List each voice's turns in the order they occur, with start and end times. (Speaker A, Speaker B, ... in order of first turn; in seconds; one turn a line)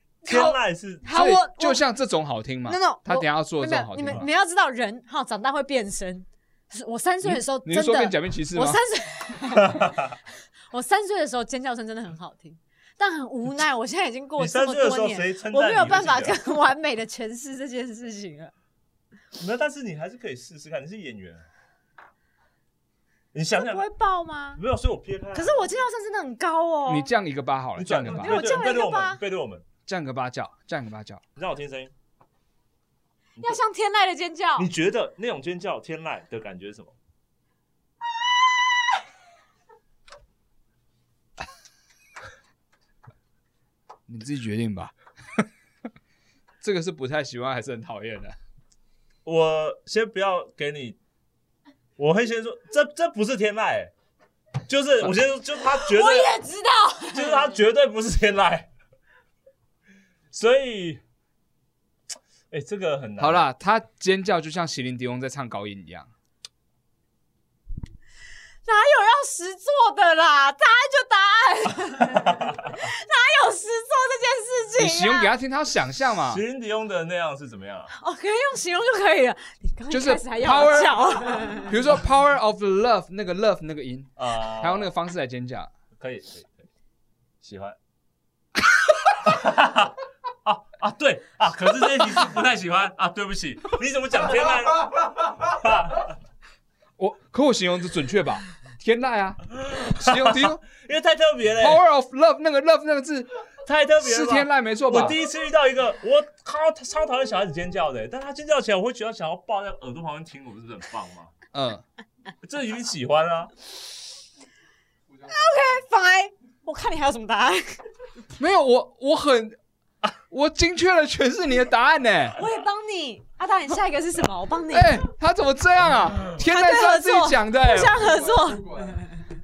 Speaker A: 0.2-1.1
Speaker B: 0.2-1.8
Speaker C: 1.1-4.3
Speaker B: 2.7-10.0
Speaker C: 7.2-8.8
Speaker A: 9.6-10.2
Speaker B: 10.7-18.5
Speaker A: 14.4-16.4
Speaker A: 19.4-21.4
Speaker A: 23.3-23.8
Speaker B: 23.6-24.6
Speaker A: 24.6-25.7
Speaker B: 25.3-27.1
Speaker C: 26.9-28.4
Speaker A: 27.8-29.6
Speaker B: 28.0-29.2
Speaker C: 29.9-31.2
Speaker A: 31.4-31.9
Speaker B: 33.4-34.7
Speaker A: 34.6-36.9
Speaker C: 44.1-45.5
Speaker C: 46.6-48.4
Speaker A: 49.2-51.0
Speaker A: 52.0-53.9
Speaker A: 54.7-56.4
Speaker B: 55.8-57.4
Speaker A: 57.1-58.7
Speaker A: 60.3-61.0
Speaker A: 62.5-63.5
Speaker C: 63.2-66.1
Speaker B: 68.7-75.3
Speaker A: 72.2-72.6
Speaker C: 74.8-76.4
Speaker A: 76.3-77.9
Speaker B: 77.9-81.7
Speaker C: 79.9-85.7
Speaker A: 84.2-84.9
Speaker A: 86.0-86.6
Speaker A: 87.4-87.8
Speaker A: 89.2-96.2
Speaker C: 97.0-100.6
Speaker A: 99.5-101.8
Speaker C: 101.6-103.3
Speaker A: 103.6-111.3
Speaker C: 104.0-105.2
Speaker C: 111.5-111.8
Speaker A: 112.4-113.5
Speaker D: 115.1-115.8
Speaker B: 115.3-117.8
Speaker C: 118.4-119.5
Speaker C: 120.3-122.4
Speaker B: 122.4-125.0
Speaker C: 124.7-127.9
Speaker B: 126.3-129.2
Speaker D: 127.8-129.1